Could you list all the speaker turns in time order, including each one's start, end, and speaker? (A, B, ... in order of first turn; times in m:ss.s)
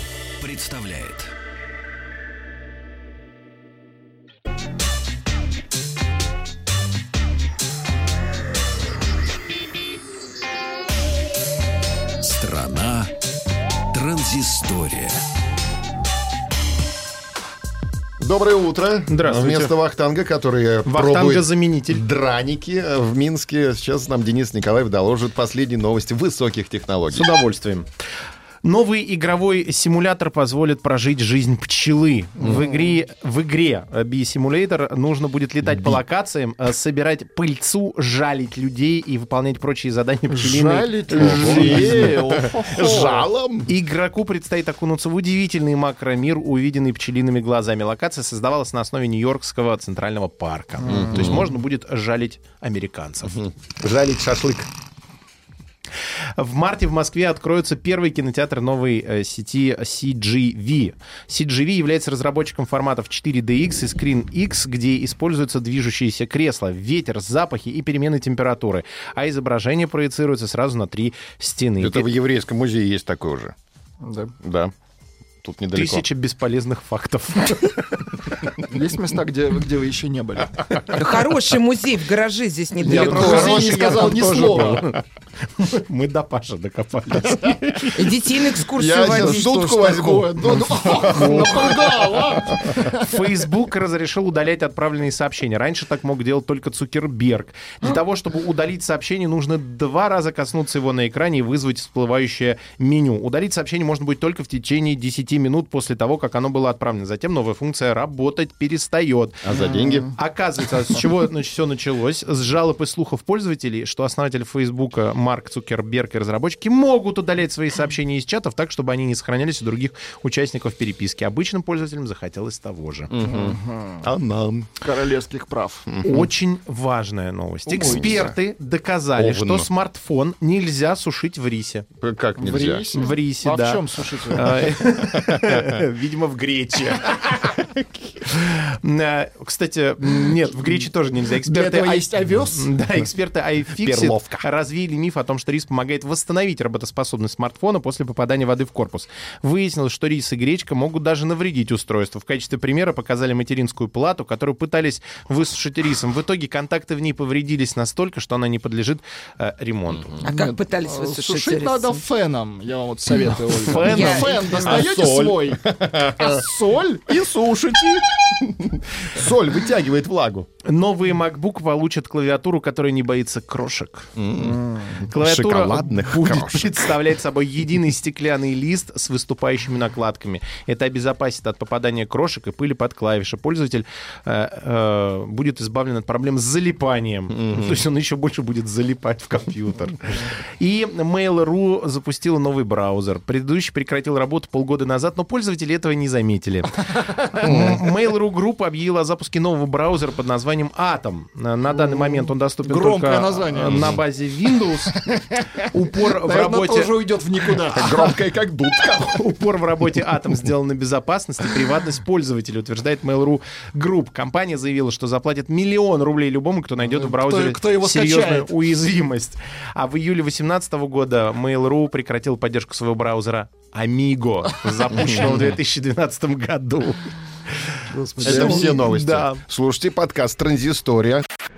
0:00.4-0:01.3 A
0:12.2-0:13.1 A
0:13.9-0:15.2 A
0:18.2-0:27.3 B
0:19.1-0:19.8 C
0:20.8-0:22.0 C
0:27.1-0:27.9 C
0:28.6-0:42.2 C
0:35.7-0:36.0 B
0:40.3-0:43.3 D
0:41.1-0:43.7 B
0:43.6-0:53.4 C
0:50.9-0:51.5 B
0:53.3-0:54.7 B
0:56.4-1:12.1 C
1:11.8-1:13.5 B
1:14.0-1:14.3 D
1:14.4-1:14.7 B
1:15.4-1:16.0 B
1:15.7-1:18.4 C
1:18.6-1:20.8 D
1:20.9-1:24.1 E
1:22.8-1:24.8 D
1:22.8-1:25.0 C
1:25.5-1:28.2 C
1:27.9-1:29.6 E
1:28.7-1:32.0 B
1:28.8-1:33.1 D
1:31.1-1:31.6 C
1:32.8-1:49.4 C
1:49.4-1:50.1 B
1:50.1-2:03.1 C
2:03.1-2:04.7 B
2:03.2-2:04.0 D
2:04.8-2:05.9 D
2:05.9-2:06.3 B
2:06.0-2:11.9 C
2:07.7-2:08.1 D
2:07.7-2:08.3 B
2:09.2-2:09.7 B
2:12.0-2:12.9 B
2:12.4-2:14.8 D
2:12.9-2:40.2 C
2:15.0-2:15.7 B
2:21.3-2:22.8 D
2:23.8-2:24.4 B
2:39.9-2:40.2 B
2:40.2-2:42.0 E
2:40.2-2:47.2 D
2:43.6-2:44.8 C
2:43.7-2:46.4 B
2:43.9-2:44.5 E
2:47.1-2:50.5 B
2:50.6-2:54.1 C
2:54.2-2:56.9 B
2:55.0-3:25.0 C
3:07.4-3:07.7 B
3:17.4-3:17.8 B
3:21.8-3:24.0 D
3:25.0-3:25.3 D
3:25.6-3:26.9 C
3:26.0-3:28.1 D
3:27.7-3:29.2 B
3:29.1-3:49.4 C
3:36.9-3:38.5 D
3:47.9-3:48.8 D
3:48.2-3:51.2 B